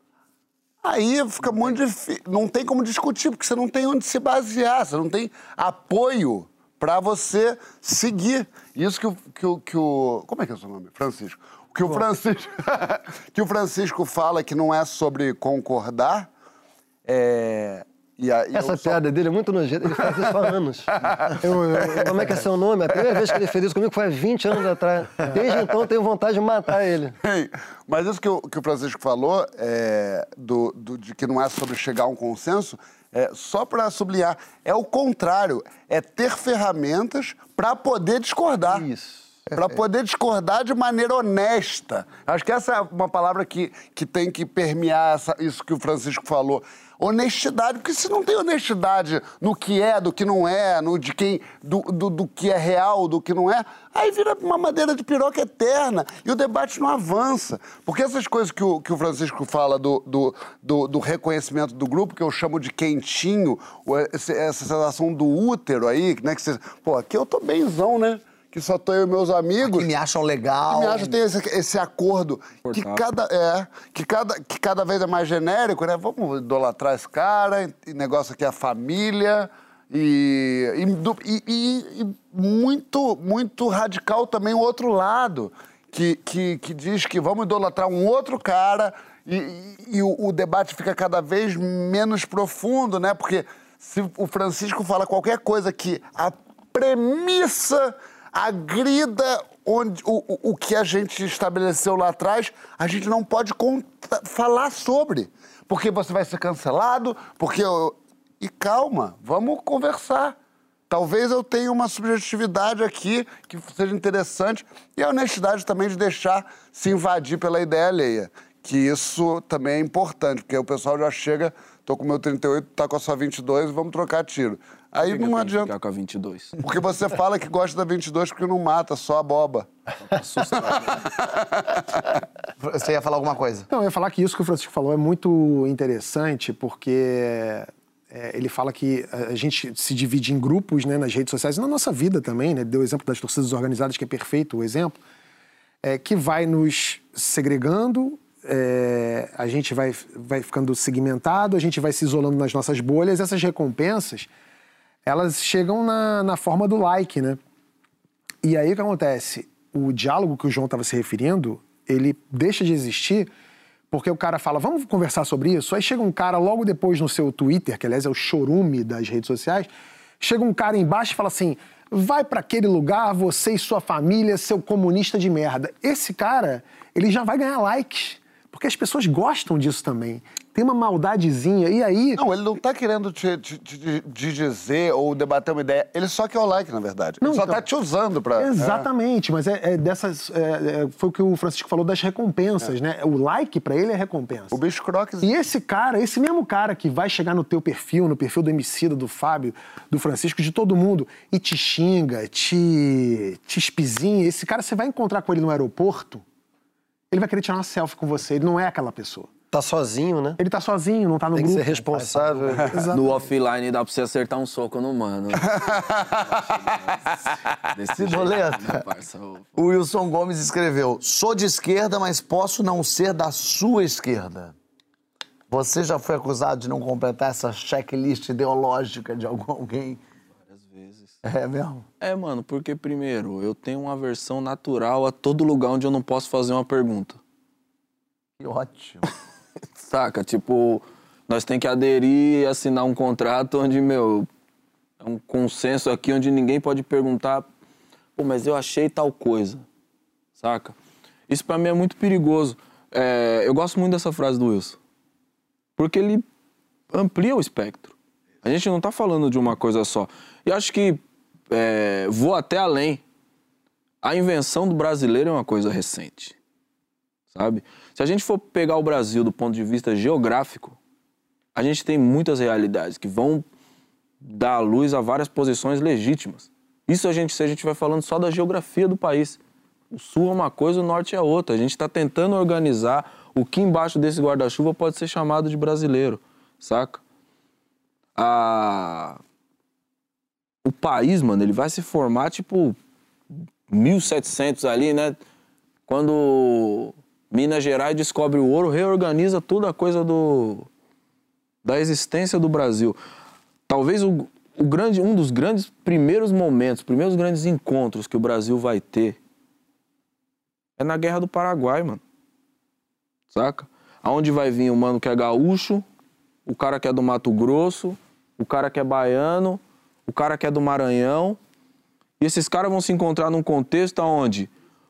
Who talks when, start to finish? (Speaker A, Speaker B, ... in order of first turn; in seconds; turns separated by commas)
Speaker A: 0.8-16.3, Speaker A: 17.1-19.0, Speaker B: 18.5-27.1, Speaker A: 20.0-20.3, Speaker A: 21.0-22.0, Speaker A: 27.2-38.9, Speaker B: 38.6-39.2, Speaker A: 39.5-69.9, Speaker C: 69.6-71.1, Speaker A: 70.7-110.3, Speaker D: 72.6-73.0, Speaker A: 110.9-125.7, Speaker D: 125.0-126.5, Speaker A: 126.6-129.7, Speaker D: 130.1-131.1, Speaker A: 130.6-132.0, Speaker C: 132.6-133.7, Speaker E: 133.7-145.0, Speaker E: 145.8-154.3, Speaker E: 155.1-157.4, Speaker E: 158.4-163.3, Speaker E: 163.9-169.7, Speaker E: 170.2-182.2, Speaker A: 182.2-188.8, Speaker E: 187.2-187.6, Speaker E: 188.4-194.5, Speaker A: 194.5-195.3, Speaker E: 195.2-206.2, Speaker E: 207.1-209.3, Speaker B: 209.5-210.4, Speaker E: 210.4-213.2, Speaker B: 211.3-212.7, Speaker D: 212.9-219.5, Speaker A: 215.5-216.5, Speaker C: 218.0-218.8, Speaker C: 219.6-224.5, Speaker C: 225.5-230.0, Speaker D: 230.5-231.1, Speaker C: 231.2-231.8, Speaker D: 232.0-237.2, Speaker C: 238.4-239.1, Speaker D: 239.9-244.3, Speaker D: 245.0-247.5, Speaker D: 248.2-249.6, Speaker D: 250.4-250.8, Speaker D: 251.3-254.8, Speaker D: 255.8-256.2, Speaker D: 256.9-263.0, Speaker D: 264.0-266.3, Speaker D: 267.3-270.8, Speaker D: 271.5-273.4, Speaker D: 274.2-279.4, Speaker D: 279.9-287.0, Speaker D: 288.1-289.2, Speaker D: 290.6-292.8, Speaker D: 293.7-295.2, Speaker D: 295.9-300.7, Speaker D: 301.6-303.0, Speaker D: 303.7-309.2, Speaker D: 310.8-312.0, Speaker D: 313.3-315.8, Speaker D: 316.4-321.4, Speaker D: 322.2-324.5